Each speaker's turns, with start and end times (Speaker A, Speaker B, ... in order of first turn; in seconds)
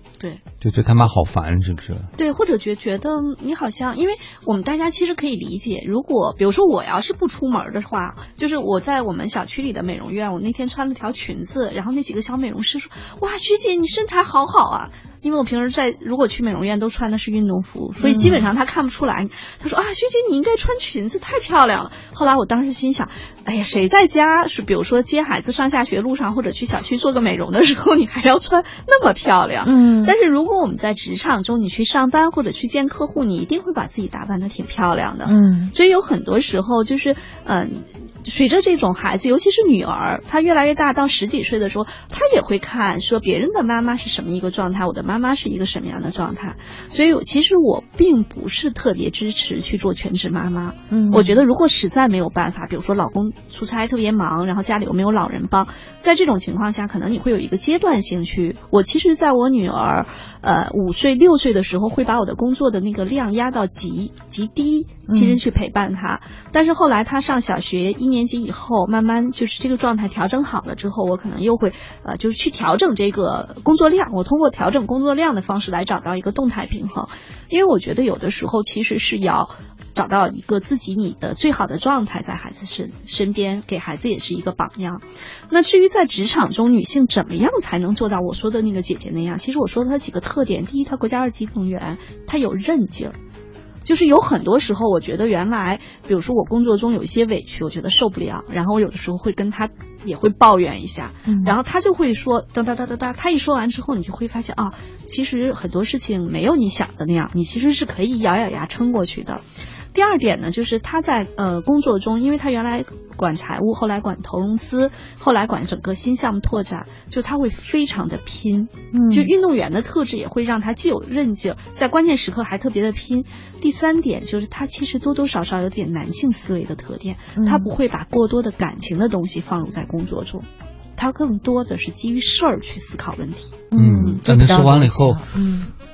Speaker A: 0.6-2.1, 133.7-135.2
Speaker B: 2.2-93.1, 93.8-109.4, 109.9-134.2
Speaker C: 18.0-18.5, 29.6-30.1, 35.3-35.7, 50.9-51.4, 65.1-65.4, 101.3-101.5, 118.9-119.3, 127.4-127.7, 133.7-135.7